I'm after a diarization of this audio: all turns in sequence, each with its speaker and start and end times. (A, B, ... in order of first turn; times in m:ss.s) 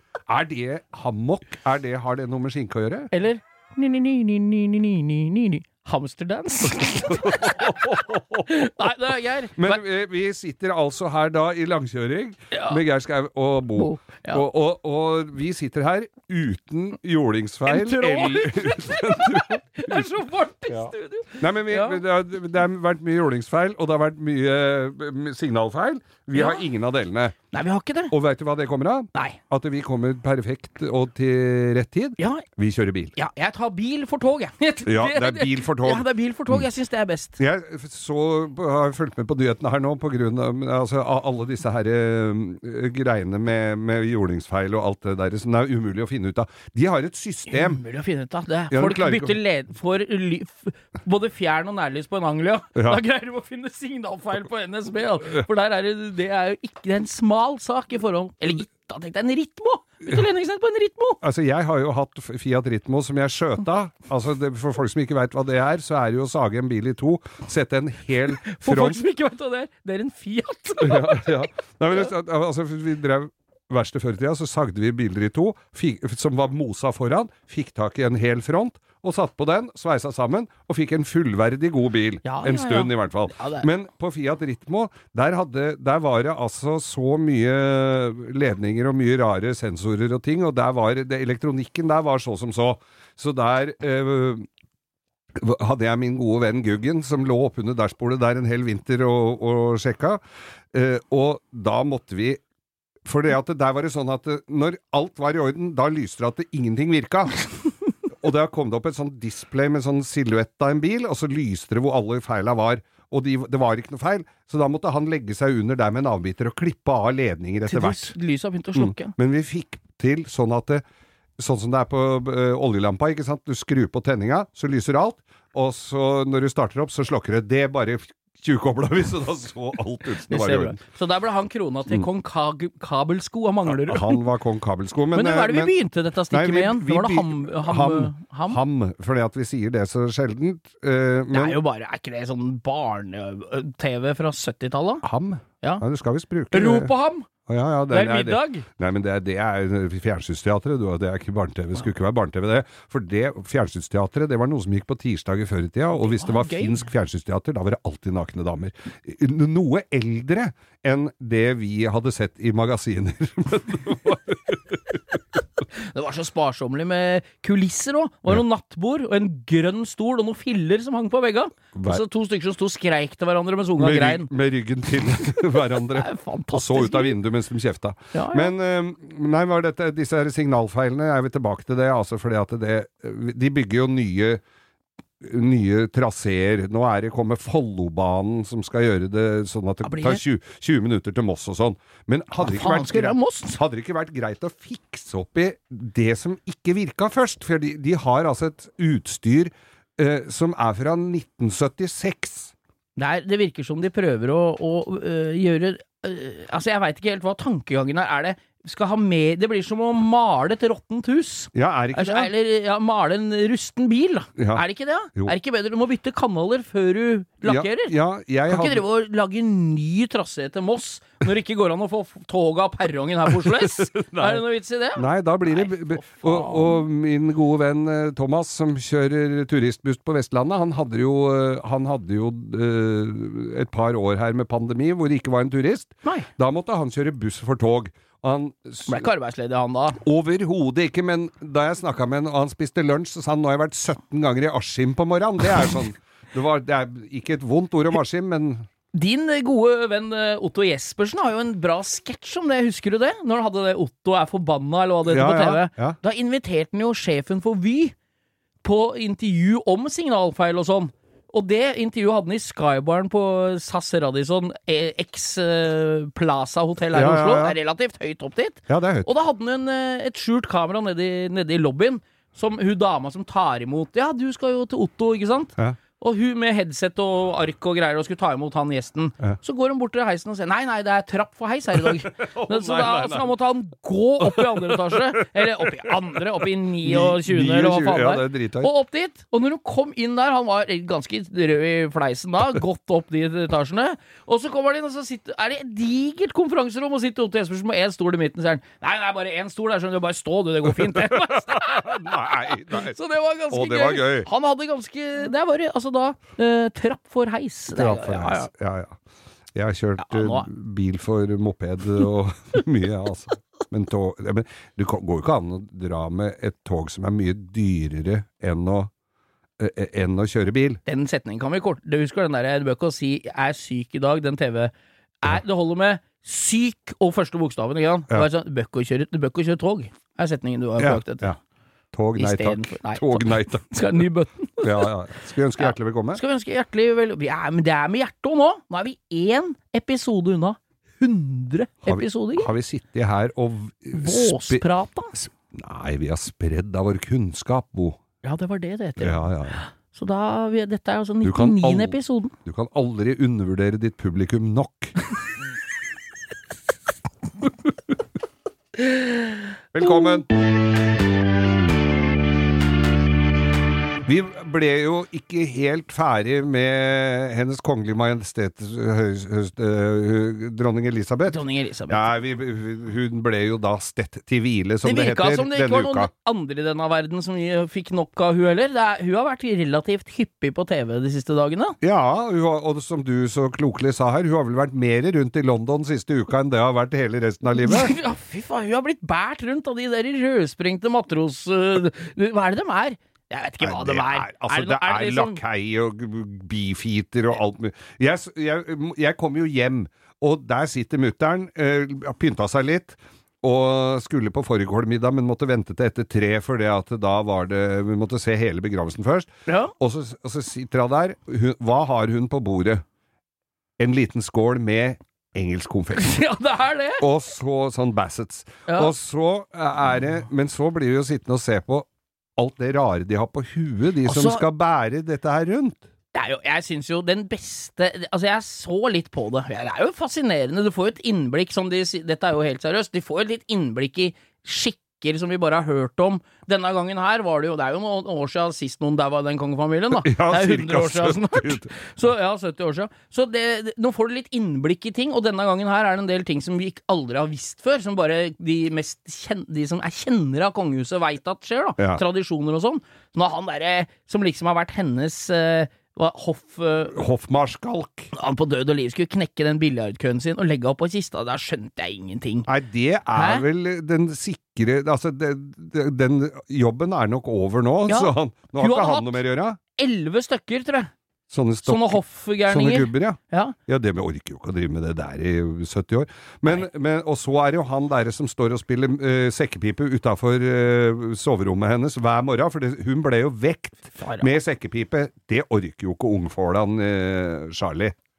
0:00.3-0:03.1 A
0:03.1-0:09.8 B
0:06.7-0:08.6 A
0:09.6-0:20.0 A
0:12.5-0:12.8 B
0:13.8-0:14.4 B
0:17.7-0:22.0 B
0:20.7-0:27.4 A
0:26.3-0:26.6 B
0:27.5-0:28.1 B
0:28.1-0:33.2 A
0:29.1-0:29.4 B
0:32.2-0:32.4 B
0:33.2-0:37.4 B
0:34.9-0:36.6 A
0:37.4-0:47.8 A
0:47.5-1:01.2 B
0:48.7-0:49.4 A
0:52.8-0:53.0 A
1:01.2-1:09.0 A
1:08.4-1:11.4 B
1:10.8-1:34.5 A
1:22.2-1:23.7 B
1:35.4-1:40.2 A
1:40.7-1:42.4 A
1:43.0-1:47.5 A
1:48.1-1:58.2 A
1:57.7-1:59.2 B
1:58.8-2:00.8 A
2:01.4-2:10.8 A
2:10.3-2:14.2 B
2:13.7-2:15.7 A
2:15.1-2:18.6 B
2:16.3-2:21.6 A
2:21.3-2:25.0 B
2:25.0-2:26.9 A
2:26.5-2:27.3 B
2:27.5-2:45.2 A
2:27.9-2:28.7 B
2:36.0-2:36.8 B
2:45.8-2:54.3 B
2:51.7-2:52.0 A
2:53.8-3:04.4 A
2:55.9-2:57.2 B
2:58.1-2:58.5 B
3:05.2-3:22.5 A
3:09.8-3:10.2 B
3:12.4-3:13.6 B
3:23.0-3:37.9 B
3:31.5-3:32.3 A
3:34.4-3:34.6 A
3:37.4-3:38.8 A
3:38.5-3:46.8 B
3:43.3-3:44.4 A
3:45.0-3:59.1 A
3:58.9-4:00.0 B
4:00.0-4:08.7 A
4:08.9-4:18.0 B
4:15.1-4:16.0 A
4:18.6-5:08.5 B
4:26.9-4:27.6 A
4:28.7-4:29.1 A
4:41.8-4:43.3 A
4:44.2-4:48.7 A
5:00.7-5:03.0 A
5:03.5-5:04.3 A
5:07.7-5:09.0 A
5:09.5-5:18.9 A
5:10.0-5:10.5 B
5:19.6-5:20.8 A
5:20.9-5:31.3 B
5:30.8-5:31.4 A
5:31.9-5:33.7 A
5:32.2-5:34.9 B
5:34.6-5:36.2 A
5:35.6-5:42.5 B
5:41.9-5:44.6 A
5:43.9-5:45.3 B
5:45.5-5:48.0 A
5:48.2-5:52.4 B
5:49.0-5:49.6 A
5:51.2-5:54.9 A
5:59.7-6:00.3 A
5:59.8-6:00.2 B
6:04.0-6:16.1 A
6:11.3-6:12.1 B
6:14.8-6:21.8 B
6:21.8-6:28.0 A
6:27.6-6:35.4 B
6:33.6-6:52.8 A
6:49.5-6:49.7 B
6:53.8-6:56.2 A
6:55.9-6:57.0 B
6:57.0-7:05.8 A
6:58.7-6:58.9 B
7:04.0-7:04.4 B
7:06.1-7:37.0 B
7:19.9-7:21.7 A
7:36.9-7:38.1 A
7:38.1-7:42.5 B
7:42.5-7:49.6 A
7:43.1-7:43.4 B
7:47.9-7:49.2 B
7:49.8-7:50.9 B
7:51.3-8:08.0 A
7:51.6-7:53.6 B
8:04.0-8:04.3 B